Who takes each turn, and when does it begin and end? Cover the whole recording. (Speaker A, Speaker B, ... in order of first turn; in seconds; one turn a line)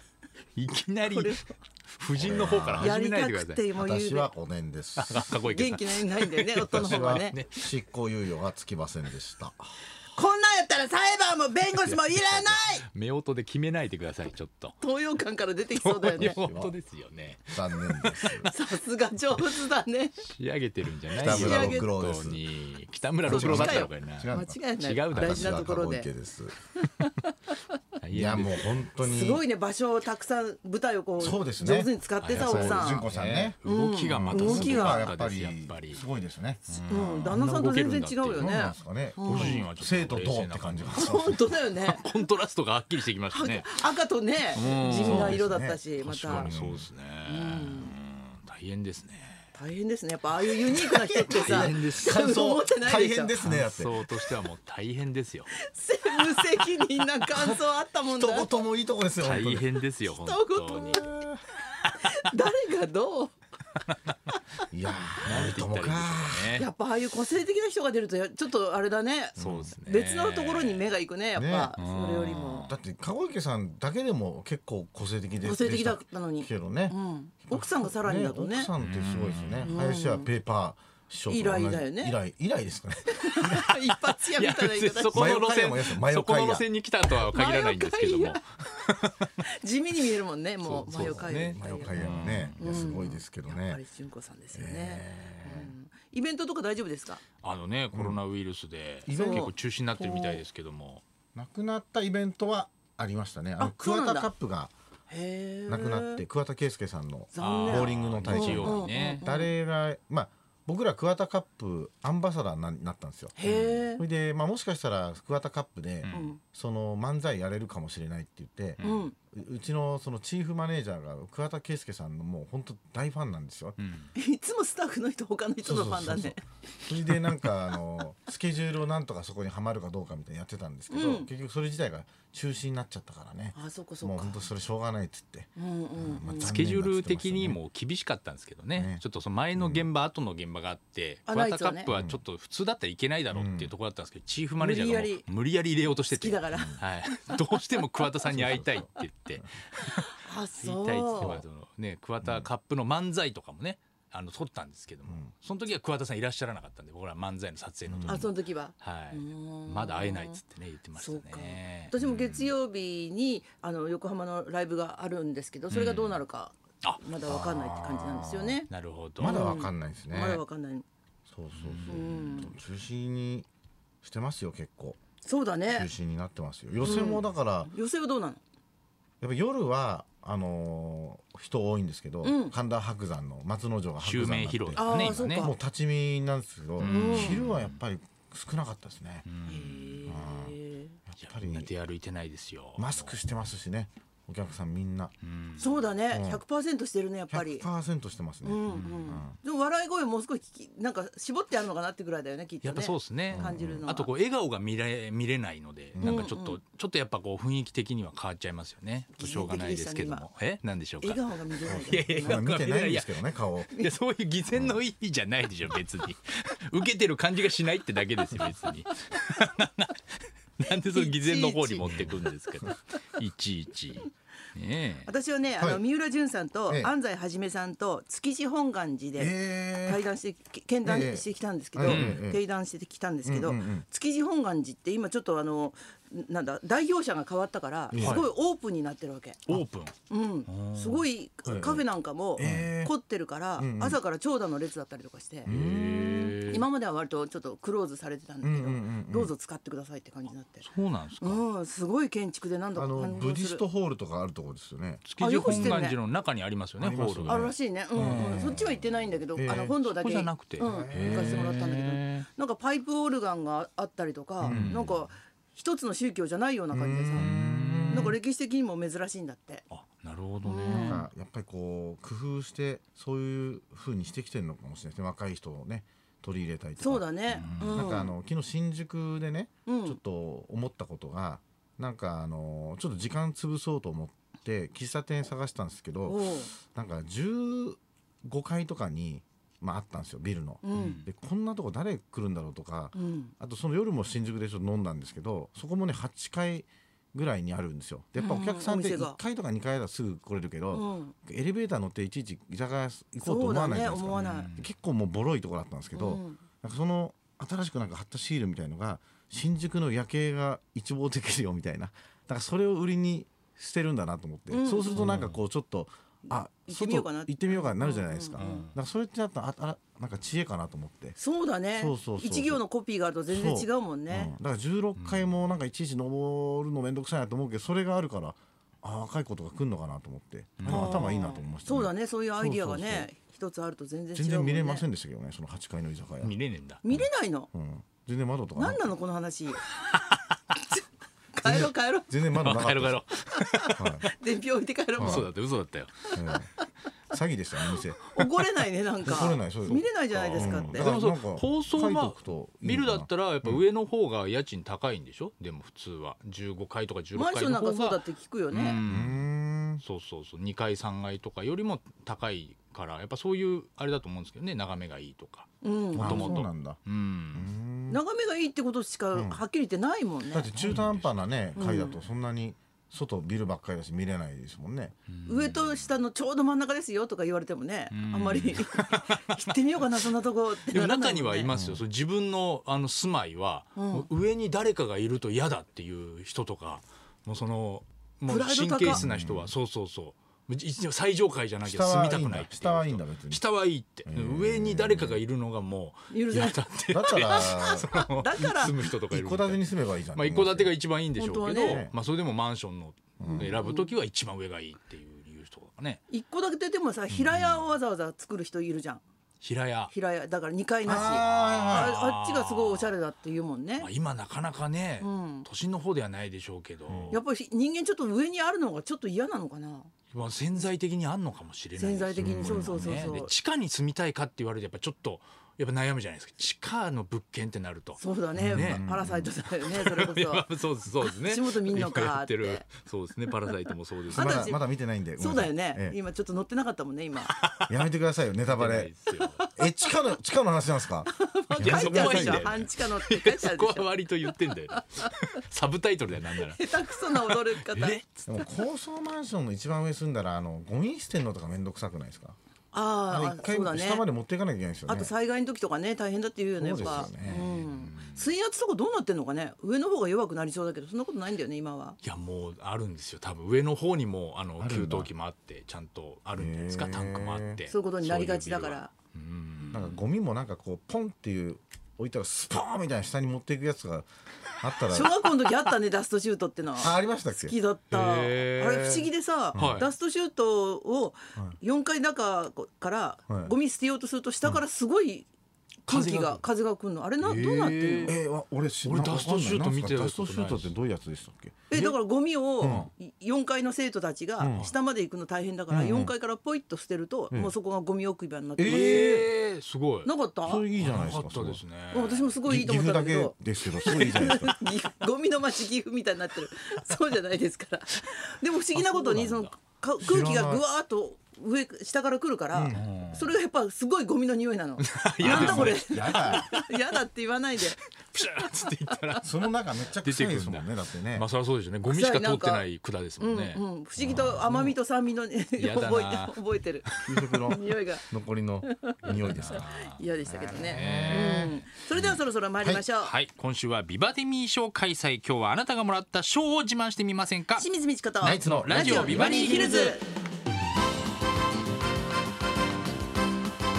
Speaker A: 0.6-3.6
Speaker B: 1.1-1.5
Speaker C: 2.1-3.0
Speaker B: 2.8-4.3
Speaker C: 3.7-5.4
Speaker A: 5.0-7.7
Speaker B: 5.1-7.3
Speaker C: 6.7-9.7
Speaker B: 10.1-12.8
Speaker A: 11.7-14.8
Speaker B: 14.8-16.4
Speaker A: 15.8-18.5
Speaker C: 16.1-16.7
Speaker C: 17.5-18.5
Speaker B: 18.5-20.2
Speaker A: 20.2-25.6
Speaker B: 21.1-21.9
Speaker C: 21.2-22.4
Speaker C: 23.2-24.6
Speaker B: 23.2-26.1
Speaker C: 25.1-26.6
Speaker B: 26.8-27.6
Speaker A: 28.0-28.8
Speaker C: 28.1-29.4
Speaker B: 29.0-33.1
Speaker C: 31.2-33.6
Speaker A: 32.2-36.0
Speaker B: 33.6-35.1
Speaker C: 34.1-36.6
Speaker A: 36.7-38.6
Speaker B: 36.9-39.6
Speaker C: 38.3-41.5
Speaker A: 39.2-43.8
Speaker B: 40.9-42.1
Speaker B: 43.3-46.5
Speaker A: 44.5-45.4
Speaker C: 44.5-46.9
Speaker A: 46.0-49.4
Speaker B: 47.2-47.9
Speaker B: 49.5-53.3
Speaker A: 50.8-52.2
Speaker C: 51.2-54.0
Speaker A: 53.4-55.5
Speaker B: 55.6-58.6
Speaker C: 57.3-59.8
Speaker A: 59.2-61.1
Speaker B: 60.0-61.1
Speaker C: 61.0-61.4
Speaker A: 61.8-62.3
Speaker B: 62.0-63.3
Speaker A: 63.9-64.1
Speaker C: 64.7-66.6
Speaker A: 65.0-66.7
Speaker B: 66.5-72.7
Speaker A: 69.4-70.8
Speaker C: 69.4-69.7
Speaker C: 71.3-71.7
Speaker A: 71.8-72.7
Speaker C: 72.7-83.6
Speaker B: 75.4-78.7
Speaker A: 78.8-79.7
Speaker B: 79.6-80.3
Speaker B: 81.3-82.1
Speaker B: 83.1-85.6
Speaker A: 83.4-89.3
Speaker C: 85.1-86.7
Speaker B: 87.2-88.4
Speaker B: 89.4-92.0
Speaker A: 90.6-92.8
Speaker C: 90.8-93.8
Speaker B: 92.6-97.2
Speaker C: 94.5-95.7
Speaker A: 97.4-101.0
Speaker C: 97.9-98.2
Speaker C: 99.0-99.5
Speaker B: 99.1-100.4
Speaker C: 101.3-104.7
Speaker B: 103.6-104.3
Speaker B: 105.1-106.2
Speaker C: 105.7-123.8
Speaker B: 107.3-109.5
Speaker A: 107.4-109.2
Speaker B: 113.4-114.0
Speaker A: 113.5-113.8
Speaker A: 116.0-116.3
Speaker B: 116.1-116.4
Speaker A: 118.8-119.1
Speaker B: 118.8-119.1
Speaker A: 123.8-124.1
Speaker B: 124.2-126.4
Speaker C: 125.6-137.6
Speaker A: 127.1-127.3
Speaker B: 130.9-131.3
Speaker B: 133.5-134.4
Speaker B: 135.6-136.6
Speaker A: 136.4-162.5
Speaker C: 138.7-139.0
Speaker C: 139.6-139.9
Speaker B: 141.3-141.9
Speaker C: 141.9-142.2
Speaker C: 143.3-143.7
Speaker B: 144.6-145.2
Speaker B: 146.1-147.5
Speaker C: 146.5-146.8
Speaker C: 148.3-149.5
Speaker B: 149.9-151.4
Speaker C: 152.2-152.5
Speaker C: 157.9-158.2
Speaker B: 158.1-160.4
Speaker B: 160.9-168.7
Speaker A: 165.7-166.2
Speaker C: 167.2-168.6
Speaker A: 168.7-169.5
Speaker C: 169.2-170.4
Speaker B: 169.2-170.8
Speaker C: 171.3-173.5
Speaker A: 171.5-172.4
Speaker B: 171.9-172.5
Speaker C: 174.0-175.0
Speaker B: 175.2-175.9
Speaker C: 175.7-177.7
Speaker B: 176.8-178.4
Speaker C: 179.2-189.3
Speaker B: 182.2-182.6
Speaker A: 184.0-185.5
Speaker B: 184.8-185.6
Speaker A: 186.8-187.8
Speaker B: 186.8-187.4
Speaker A: 189.2-190.2
Speaker B: 189.5-191.0
Speaker C: 190.1-191.7
Speaker A: 191.2-193.2
Speaker C: 192.8-195.1
Speaker A: 195.2-195.8
Speaker B: 195.6-197.6
Speaker C: 196.1-196.4
Speaker C: 197.3-199.4
Speaker B: 198.4-204.1
Speaker A: 198.7-199.2
Speaker A: 202.6-225.1
Speaker C: 203.3-203.8
Speaker C: 205.9-206.3
Speaker B: 206.0-206.6
Speaker B: 209.2-210.3
Speaker B: 211.0-212.5
Speaker C: 211.6-213.7
Speaker C: 214.5-214.8
Speaker B: 220.7-222.2
Speaker B: 225.0-239.4
Speaker C: 226.7-226.9
Speaker C: 229.2-230.0
Speaker C: 230.8-232.4
Speaker A: 231.8-232.2
Speaker C: 233.2-233.8
Speaker C: 237.9-238.3
Speaker A: 237.9-238.2
Speaker A: 239.5-239.9
Speaker B: 240.1-245.5
Speaker A: 240.5-241.0
Speaker C: 241.4-241.8
Speaker C: 242.4-242.9
Speaker A: 242.4-242.7
Speaker C: 243.6-244.0
Speaker C: 245.4-246.4
Speaker A: 245.4-246.7
Speaker B: 246.5-250.6
Speaker C: 248.4-249.3
Speaker A: 250.6-251.4
Speaker B: 251.2-253.6
Speaker C: 252.7-255.8
Speaker A: 255.0-258.8
Speaker B: 255.2-256.0
Speaker C: 256.8-258.6
Speaker B: 257.3-267.3
Speaker C: 259.3-259.7
Speaker A: 259.5-262.3
Speaker C: 260.6-261.6
Speaker C: 264.4-264.8
Speaker A: 264.4-265.0
Speaker C: 266.7-268.2
Speaker A: 267.1-268.1
Speaker B: 267.9-269.6
Speaker A: 269.7-271.1
Speaker B: 270.4-271.0
Speaker C: 270.7-321.2
Speaker B: 276.8-278.1
Speaker A: 277.3-278.0
Speaker B: 279.7-280.0
Speaker B: 286.1-286.5
Speaker B: 290.6-291.0
Speaker A: 290.7-291.0
Speaker B: 292.9-293.3
Speaker B: 298.2-299.2
Speaker B: 300.7-301.1
Speaker B: 303.2-304.5
Speaker A: 304.1-304.7
Speaker B: 305.9-306.4
Speaker B: 314.5-315.1
Speaker A: 314.9-315.4
Speaker B: 316.3-318.6
Speaker A: 318.4-318.8
Speaker B: 321.2-324.3
Speaker C: 321.7-322.6
Speaker C: 323.3-333.1
Speaker A: 325.0-325.3
Speaker A: 330.6-331.2
Speaker B: 330.7-334.9
Speaker C: 334.1-336.3
Speaker A: 336.2-336.8
Speaker B: 336.8-337.5
Speaker C: 336.9-338.9
Speaker B: 338.6-339.7
Speaker A: 339.9-340.4
Speaker B: 341.3-342.1
Speaker C: 341.4-343.0
Speaker A: 342.4-344.1
Speaker B: 343.4-345.3
Speaker C: 343.7-344.0
Speaker C: 345.0-345.3
Speaker A: 345.0-346.1
Speaker C: 346.1-346.5
Speaker C: 347.1-348.1
Speaker B: 347.7-350.9
Speaker C: 349.0-353.6
Speaker A: 350.1-359.2
Speaker B: 357.1-358.8
Speaker C: 358.9-359.8
Speaker A: 359.8-367.5
Speaker B: 365.6-366.4
Speaker C: 365.9-366.8
Speaker C: 367.3-368.0
Speaker B: 367.9-370.5
Speaker C: 369.1-369.4
Speaker C: 370.3-374.9
Speaker A: 370.5-371.2
Speaker B: 371.6-372.0
Speaker A: 375.1-375.9
Speaker B: 375.2-381.5
Speaker A: 377.9-380.1
Speaker A: 380.7-406.0
Speaker C: 381.5-381.8
Speaker B: 383.8-384.1
Speaker B: 388.3-389.0
Speaker C: 388.9-389.5
Speaker C: 391.6-393.4
Speaker C: 394.1-395.2
Speaker B: 396.1-398.8
Speaker C: 396.9-397.9
Speaker C: 398.8-400.8
Speaker B: 401.2-401.8
Speaker C: 401.5-401.9
Speaker C: 403.2-403.6
Speaker B: 403.4-403.9
Speaker B: 406.1-409.0
Speaker C: 407.1-407.4
Speaker A: 409.4-409.9
Speaker B: 409.9-413.9
Speaker C: 410.8-411.9
Speaker A: 410.9-413.0
Speaker A: 413.8-417.2
Speaker B: 415.0-415.5
Speaker C: 416.9-417.2
Speaker B: 417.1-419.9
Speaker A: 420.1-428.9
Speaker B: 421.8-423.3
Speaker C: 422.2-423.1
Speaker B: 428.0-430.5
Speaker C: 428.4-429.3
Speaker A: 429.4-434.5
Speaker B: 431.0-432.6
Speaker B: 434.1-434.6
Speaker C: 434.1-436.0
Speaker B: 435.2-437.3
Speaker A: 437.3-437.8
Speaker C: 437.7-438.9
Speaker A: 438.4-439.5
Speaker B: 439.2-439.7
Speaker C: 439.6-442.7
Speaker B: 441.1-445.1
Speaker A: 441.5-448.5
Speaker B: 446.4-448.0
Speaker C: 448.3-452.4
Speaker B: 452.7-454.1
Speaker C: 453.1-455.1
Speaker B: 454.9-462.0
Speaker C: 456.6-457.5
Speaker A: 456.8-458.3
Speaker A: 462.0-470.0
Speaker C: 464.6-465.1
Speaker C: 466.3-467.6
Speaker B: 467.7-468.9
Speaker C: 469.7-474.1
Speaker C: 474.6-475.2
Speaker B: 474.9-485.3
Speaker C: 476.8-477.5
Speaker A: 477.9-479.0
Speaker C: 479.5-479.8
Speaker A: 479.5-479.9
Speaker C: 483.3-483.5
Speaker A: 485.9-486.4
Speaker B: 485.9-488.1
Speaker A: 487.2-488.1
Speaker C: 488.1-491.9
Speaker A: 488.8-490.7
Speaker B: 491.7-499.2
Speaker C: 492.6-492.9
Speaker C: 494.4-494.7
Speaker C: 495.7-496.1
Speaker C: 498.6-499.3
Speaker A: 498.7-500.1
Speaker B: 500.0-500.6
Speaker C: 500.4-501.6
Speaker A: 500.8-502.4
Speaker B: 501.9-517.8
Speaker C: 502.4-504.6
Speaker A: 508.7-509.5
Speaker C: 510.0-510.6
Speaker C: 512.5-512.8
Speaker A: 512.7-513.4
Speaker A: 514.8-516.8
Speaker C: 515.2-516.5
Speaker A: 518.1-524.5
Speaker C: 519.2-521.3
Speaker B: 521.9-522.6
Speaker B: 523.2-526.9
Speaker A: 525.6-527.4
Speaker C: 527.0-529.7
Speaker B: 527.5-528.0
Speaker B: 528.8-533.1
Speaker A: 529.0-532.1
Speaker C: 530.3-531.5
Speaker A: 533.0-537.7
Speaker B: 537.5-540.0
Speaker C: 538.2-539.4
Speaker A: 538.2-540.0